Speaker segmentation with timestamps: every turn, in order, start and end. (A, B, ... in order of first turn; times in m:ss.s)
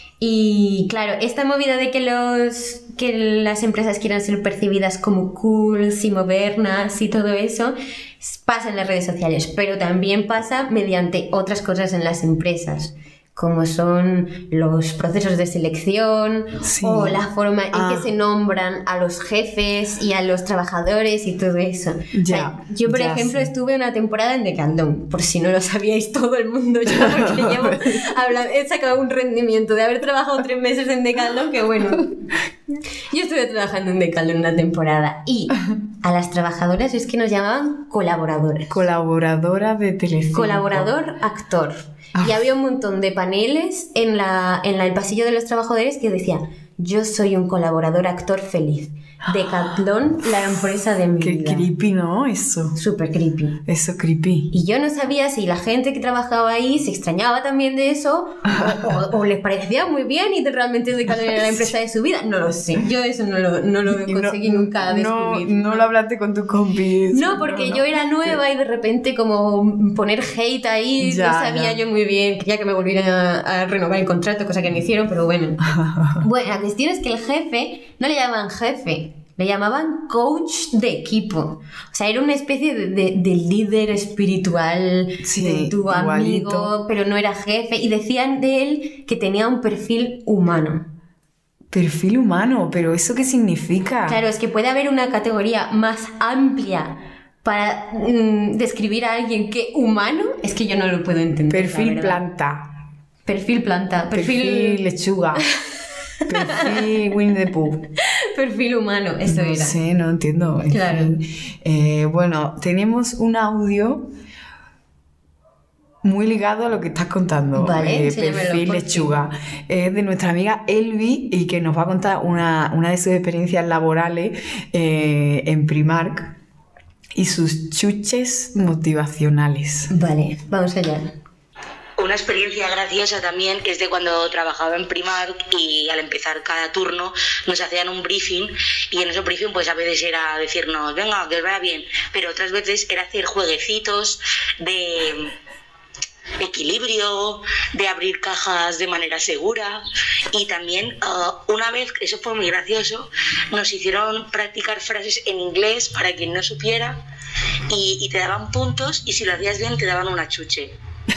0:00.2-0:32.1 A
0:16.6-0:17.2 B
0:17.7-0:18.1 B
0:22.2-0:23.5 B
0:26.9-0:28.0 B
0:33.1-0:38.8 A
0:38.7-0:40.9 B
0:40.3-0:51.7 A
0:42.2-0:42.4 B
0:51.2-0:52.8 B
0:52.8-0:53.6 A
0:53.7-0:54.5 B
0:54.5-1:05.9 A
0:58.5-0:59.0 B
1:01.3-1:01.6 B
1:03.9-1:08.4 B
1:07.1-1:15.6 A
1:11.0-1:11.8 B
1:15.6-1:16.3 B
1:16.2-1:30.9 A
1:25.2-1:26.7 B
1:31.7-1:34.2 B
1:34.1-1:42.2 A
1:41.5-1:42.7 B
1:43.3-1:44.8 A
1:44.1-1:45.4 B
1:46.3-1:47.9 B
1:46.3-1:46.7 A
1:48.0-1:49.8 A
1:49.2-1:54.1 B
1:50.7-1:51.1 A
1:56.0-2:06.3 B
1:57.6-1:59.2 A
2:07.2-2:09.9 B
2:09.9-2:11.1 A
2:12.0-2:25.3 C
2:26.4-2:37.0 C
2:37.7-2:40.7 C